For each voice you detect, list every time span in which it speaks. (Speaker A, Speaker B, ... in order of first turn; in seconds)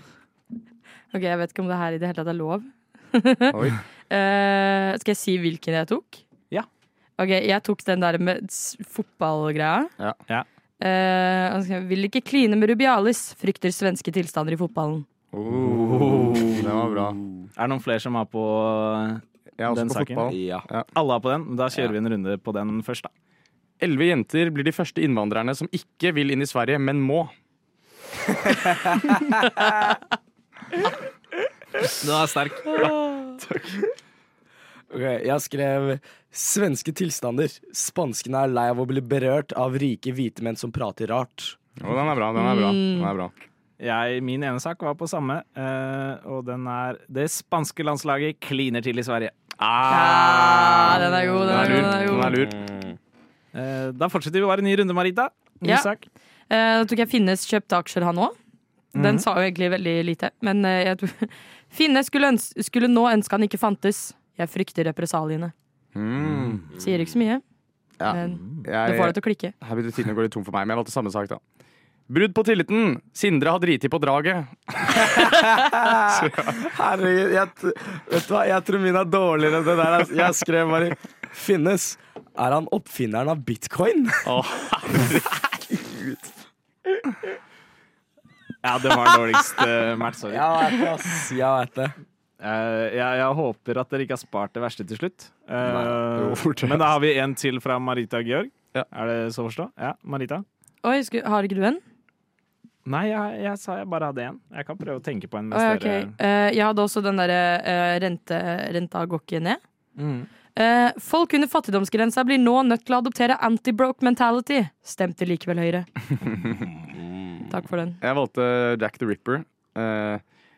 Speaker A: 1.1-6.2, 7.2-9.9, 10.8-15.1, 42.4-43.1, 49.9-52.4, 55.6-55.9, 56.5-58.4, 58.9-65.5, 66.8-67.4, 68.1-69.5, 100.8-101.8, 105.5-109.6, 110.5-115.9, 117.5-118.0
Speaker B: 3.5-3.8, 15.3-17.2, 19.6-20.9, 23.8-27.3, 32.8-33.9, 41.8-43.3, 49.6-52.6, 66.0-66.7, 68.0-71.4, 72.1-76.6, 84.2-85.5, 95.7-96.9, 118.0-120.2
Speaker C: 15.5-17.2, 20.3-20.7, 28.6-29.1, 34.9-41.6, 50.9-53.0, 75.2-84.3, 90.3-92.0, 116.9-117.4
Speaker D: 16.0-16.6, 17.6-20.3, 20.9-23.1, 31.8-32.9, 43.8-49.4, 53.5-56.0, 59.0-59.2, 66.3-66.6, 88.6-90.6, 92.4-100.5, 102.8-106.2, 110.0-110.3